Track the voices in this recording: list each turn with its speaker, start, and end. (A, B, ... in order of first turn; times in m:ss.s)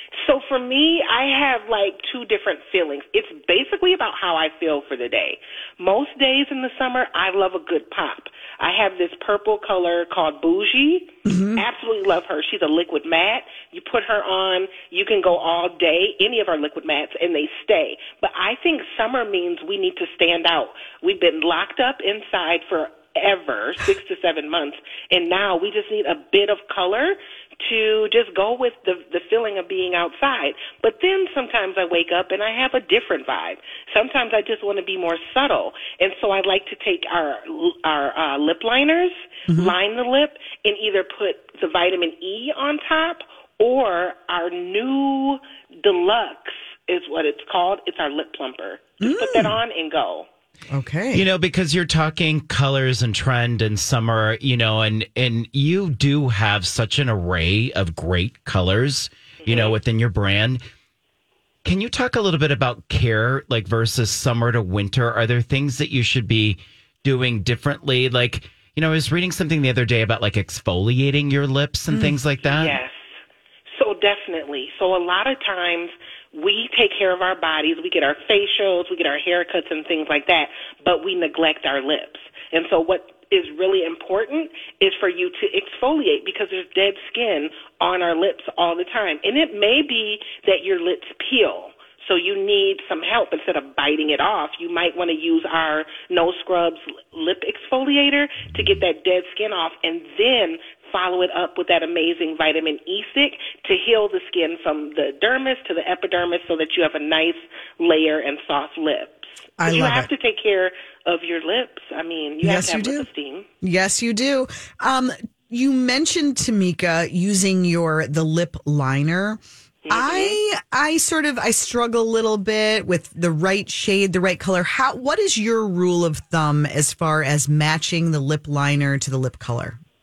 0:00.2-0:50.3 A
0:11.2-0:11.6 B
0:39.5-0:39.7 B
0:49.0-0:49.6 B
0:50.7-0:51.2 B
0:51.1-1:00.6 C
0:59.4-0:59.8 A
1:01.6-1:12.8 C
1:11.9-1:12.2 B
1:12.4-1:13.0 A
1:13.7-1:53.5 A
1:49.6-1:50.1 B
1:52.4-1:53.1 B
1:53.6-2:09.8 B
1:59.9-2:00.4 A